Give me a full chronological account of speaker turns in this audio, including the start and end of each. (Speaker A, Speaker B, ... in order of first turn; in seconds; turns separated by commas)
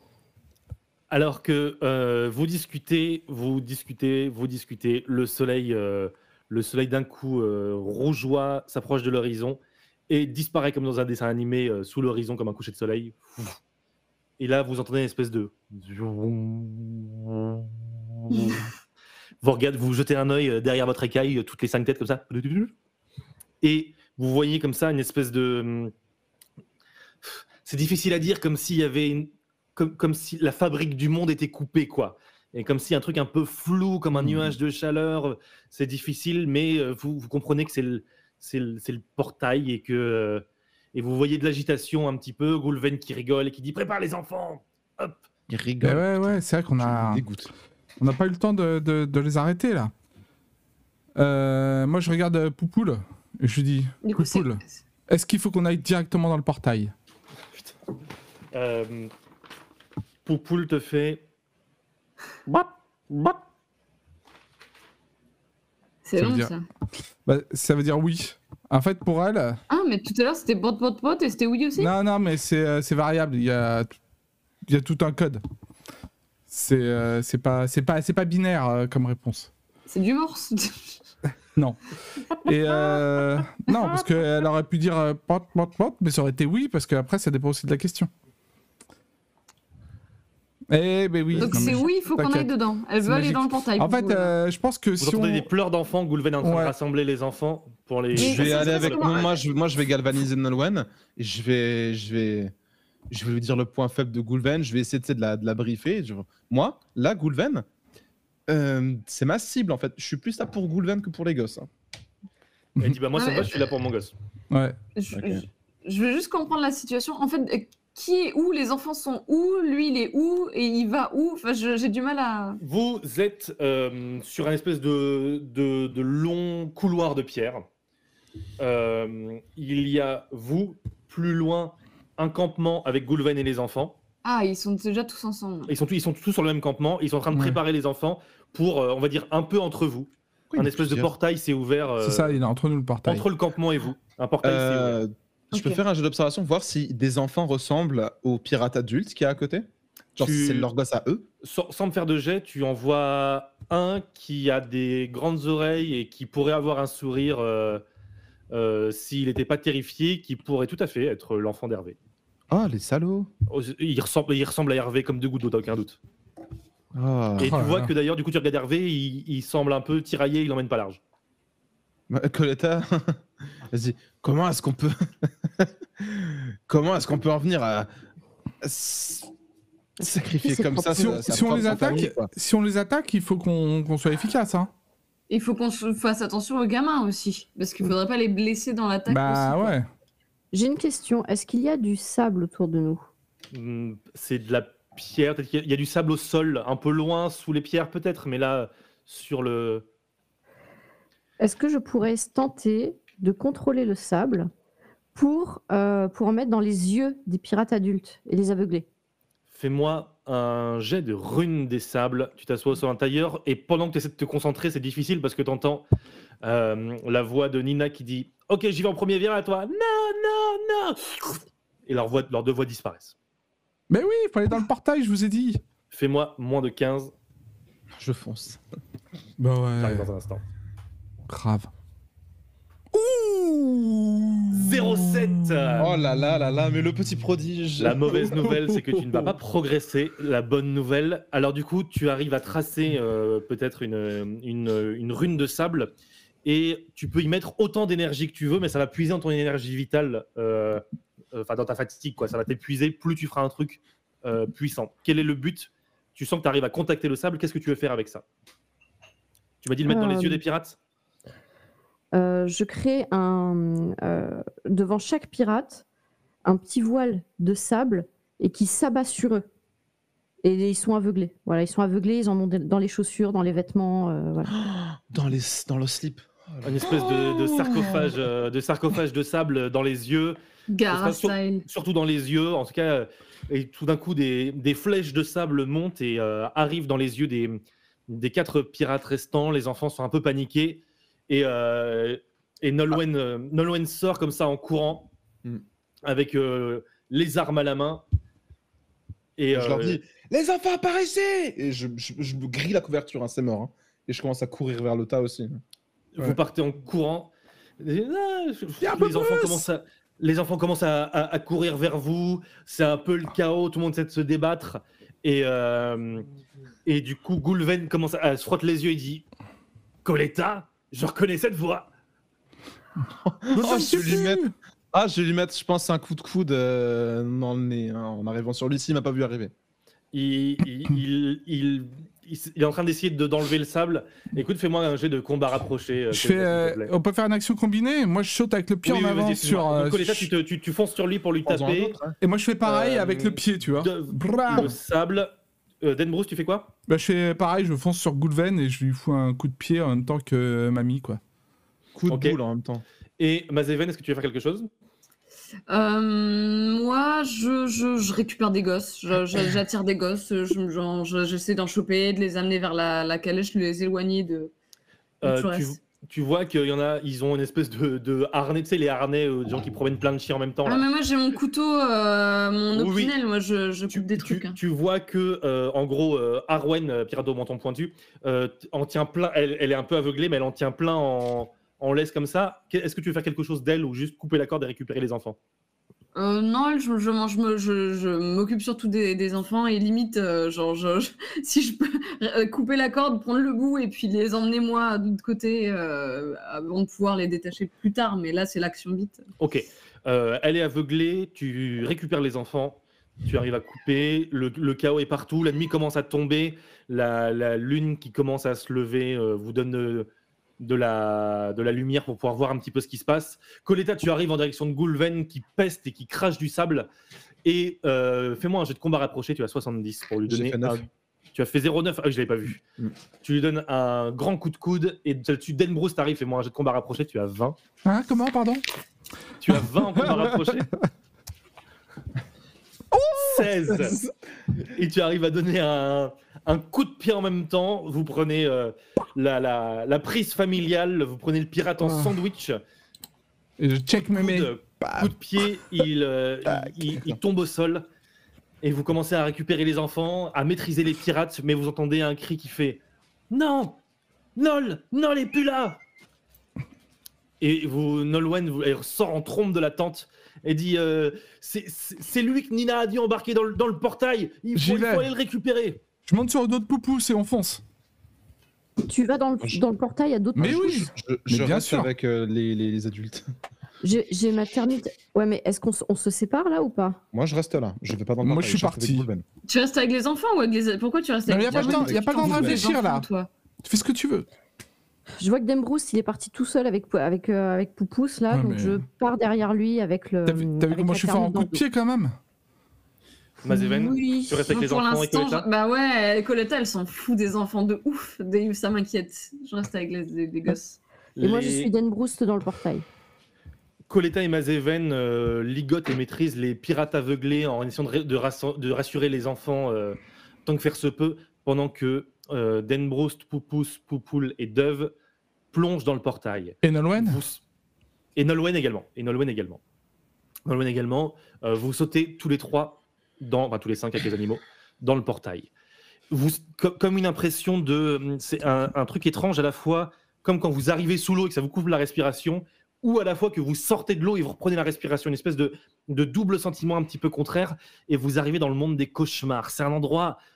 Speaker A: 1.1-13.6, Speaker A: 14.4-18.7, Speaker A: 19.4-22.7, Speaker A: 23.6-25.9, Speaker A: 27.3-45.2, Speaker B: 45.5-47.5, Speaker C: 45.8-47.2, Speaker C: 48.0-49.9, Speaker C: 51.2-56.9, Speaker D: 54.0-54.6, Speaker A: 58.5-59.1, Speaker A: 60.2-61.2, Speaker A: 62.5-63.4, Speaker D: 66.0-66.7, Speaker C: 66.2-66.5, Speaker C: 67.2-69.6, Speaker D: 69.7-71.9, Speaker C: 71.8-73.9, Speaker C: 74.7-75.4, Speaker C: 76.5-79.5, Speaker D: 79.9-81.0, Speaker C: 81.5-81.8, Speaker C: 82.3-88.1, Speaker C: 90.7-92.5, Speaker B: 91.3-91.8, Speaker D: 91.4-94.3, Speaker C: 93.0-95.5, Speaker A: 95.0-99.2, Speaker C: 96.4-96.8, Speaker D: 98.2-99.3, Speaker B: 98.2-102.5, Speaker B: 103.1-107.7, Speaker B: 108.5-111.7, Speaker A: 112.8-114.1, Speaker D: 113.2-113.6, Speaker C: 114.5-114.8, Speaker D: 115.0-122.6, Speaker B: 115.1-115.4, Speaker A: 122.6-127.7, Speaker A: 128.6-134.0, Speaker D: 134.2-135.7, Speaker A: 135.7-142.4, Speaker C: 137.3-137.6, Speaker B: 140.5-141.1, Speaker C: 142.0-143.3, Speaker A: 143.1-145.0, Speaker B: 144.4-149.7, Speaker D: 145.5-145.8, Speaker A: 150.2-150.7, Speaker B: 150.2-151.3, Speaker A: 151.4-157.8, Speaker A: 158.5-162.0, Speaker B: 162.5-163.3, Speaker A: 163.5-166.0, Speaker B: 166.9-167.6, Speaker A: 167.4-171.0, Speaker C: 167.4-167.9, Speaker B: 172.1-177.9, Speaker B: 178.6-179.3, Speaker E: 180.0-182.0, Speaker B: 180.0-182.3, Speaker C: 180.9-184.7, Speaker D: 185.3-189.7, Speaker C: 189.1-189.9, Speaker E: 190.5-193.0, Speaker A: 193.5-199.9, Speaker E: 201.4-204.5, Speaker E: 205.2-208.9, Speaker A: 209.5-215.8, Speaker A: 216.4-223.2, Speaker C: 223.9-225.6, Speaker A: 225.9-227.1, Speaker B: 228.0-228.6, Speaker C: 229.4-230.1, Speaker A: 229.8-230.4, Speaker C: 231.3-231.7, Speaker C: 232.9-236.1, Speaker A: 234.5-235.9, Speaker B: 235.8-238.6, Speaker A: 237.8-245.9, Speaker C: 238.4-239.3, Speaker A: 246.4-258.2, Speaker A: 259.6-260.8, Speaker E: 259.9-260.4, Speaker E: 262.1-265.8, Speaker E: 266.4-269.5, Speaker E: 270.4-274.5, Speaker B: 274.5-278.1, Speaker A: 276.6-280.4, Speaker D: 280.7-281.6, Speaker A: 280.9-295.1, Speaker A: 296.1-298.1, Speaker A: 299.4-300.0, Speaker B: 299.5-305.6, Speaker A: 306.1-316.3, Speaker C: 308.8-309.7, Speaker A: 316.9-319.2, Speaker A: 320.0-321.9, Speaker B: 323.2-329.5, Speaker C: 323.6-324.5, Speaker A: 330.1-336.9, Speaker C: 336.1-340.3, Speaker A: 338.8-342.0, Speaker B: 341.4-342.2, Speaker C: 342.2-344.7, Speaker A: 342.6-346.7, Speaker C: 346.9-351.2, Speaker B: 351.9-352.8, Speaker A: 352.1-352.4, Speaker A: 353.2-354.7, Speaker D: 355.7-364.5, Speaker D: 365.2-365.8, Speaker A: 365.2-370.9, Speaker D: 370.6-374.6, Speaker A: 372.8-373.1, Speaker A: 373.9-385.4, Speaker D: 386.1-399.3, Speaker A: 399.4-410.1, Speaker A: 410.6-416.9, Speaker A: 417.4-422.6, Speaker B: 420.3-420.8, Speaker A: 423.2-427.6, Speaker C: 427.9-428.6, Speaker A: 429.4-430.7, Speaker C: 430.0-430.5, Speaker C: 432.9-433.5, Speaker A: 433.1-434.0, Speaker A: 434.6-442.6, Speaker C: 443.6-444.5, Speaker A: 444.1-447.9, Speaker B: 444.8-445.1, Speaker B: 446.6-447.2, Speaker A: 448.6-453.8, Speaker A: 454.4-455.8, Speaker A: 457.4-465.8, Speaker C: 464.5-465.1, Speaker C: 466.1-467.6, Speaker E: 468.9-470.8, Speaker B: 470.4-473.3, Speaker C: 470.4-471.9, Speaker E: 473.8-477.0, Speaker B: 477.1-479.2, Speaker C: 478.2-479.1, Speaker D: 479.5-483.3, Speaker C: 481.3-483.1, Speaker B: 481.5-482.6, Speaker C: 483.6-484.3, Speaker E: 485.2-491.6, Speaker C: 488.3-488.8, Speaker C: 490.3-492.2, Speaker A: 493.4-495.5, Speaker E: 493.5-494.6, Speaker D: 494.5-500.8, Speaker A: 501.2-501.7, Speaker E: 501.2-502.8, Speaker A: 503.9-514.9, Speaker A: 515.5-517.4, Speaker C: 516.6-517.2, Speaker A: 518.2-519.6, Speaker A: 520.5-525.5, Speaker A: 526.1-540.2